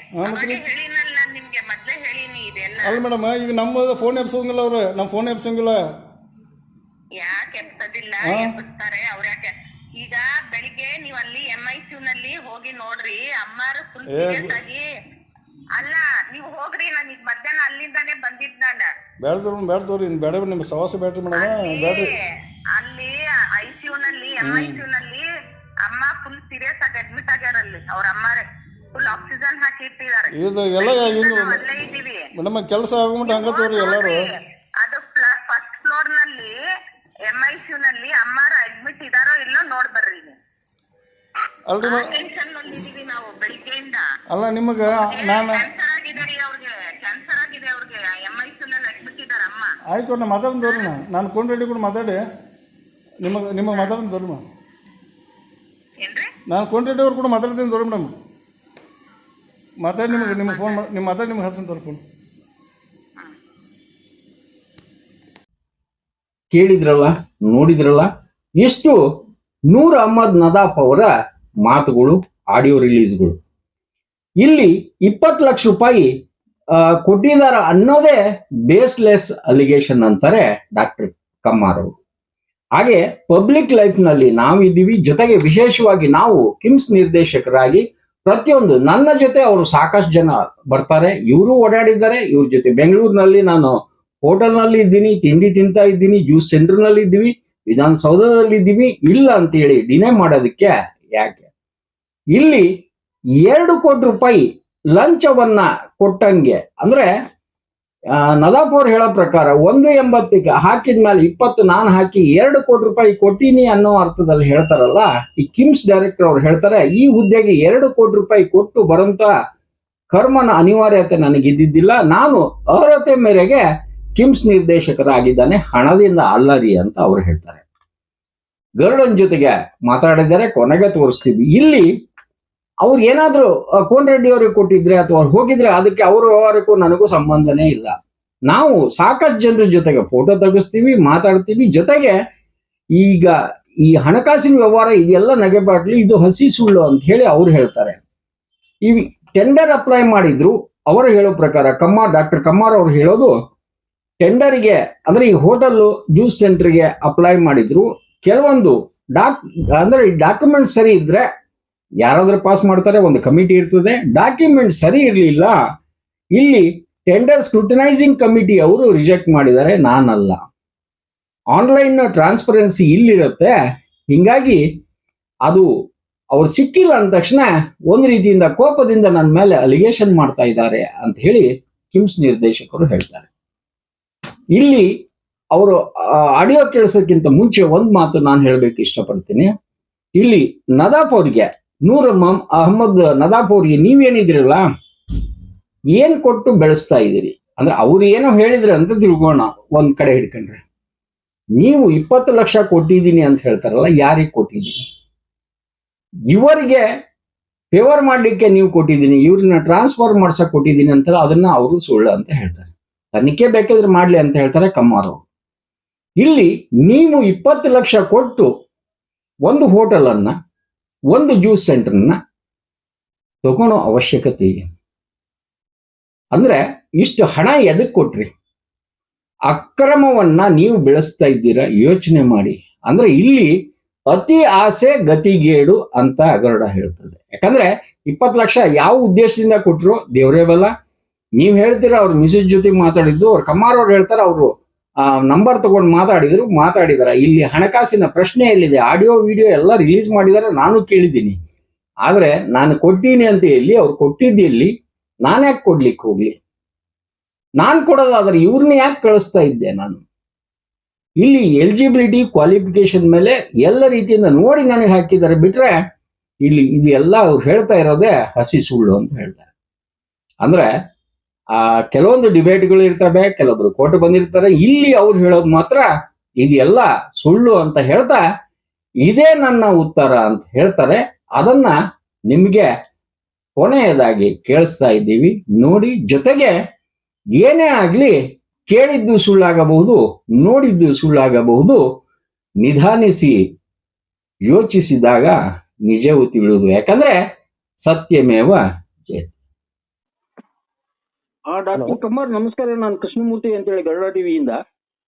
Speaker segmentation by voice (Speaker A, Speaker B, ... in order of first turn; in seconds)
Speaker A: 0.2-0.6, 2.8-5.8, 8.2-8.5, 14.1-14.6, 19.2-22.1, 24.4-24.8, 30.3-31.6, 32.4-34.3, 41.7-42.2, 44.3-45.6, 49.9-52.2, 53.2-54.4, 56.5-58.1, 59.8-62.0
Speaker B: 0.2-3.0, 7.2-14.8, 15.8-18.9, 21.3-22.1, 22.8-25.2, 25.8-32.3, 33.3-34.2, 34.8-36.5, 37.3-40.4, 41.8-44.0, 44.9-49.7, 50.6-50.9, 53.7-54.0, 56.0-56.3, 60.1-60.8
Speaker C: 66.5-69.0, 69.7-71.1, 71.6-73.4, 74.4-76.1, 76.7-81.9, 82.8-101.5, 102.3-102.8, 103.4-107.1, 108.2-119.3, 120.1-123.6, 124.2-127.6, 128.8-131.9, 132.8-142.2, 142.9-148.0, 148.8-153.3, 154.2-161.2, 162.0-165.6, 166.3-170.5, 171.5-173.5, 174.1-174.7, 176.3-183.3, 184.5-185.0, 185.5-189.5, 190.1-194.7, 195.9-200.6, 201.6-204.8, 206.3-206.8, 207.7-215.2, 216.2-218.5, 219.4-220.3, 221.1-222.2, 223.4-224.7, 226.3-228.3, 229.5-233.5, 234.1-240.7, 241.4-244.5, 245.1-251.4, 252.0-254.7, 255.2-256.4, 257.6-260.0, 261.2-265.8, 266.4-269.4, 270.4-270.7, 271.5-275.9, 276.4-278.2, 279.0-281.8, 282.3-282.7, 283.6-286.5, 287.4-291.8, 292.6-293.4, 294.4-297.2, 297.8-299.3
Speaker D: 301.5-304.6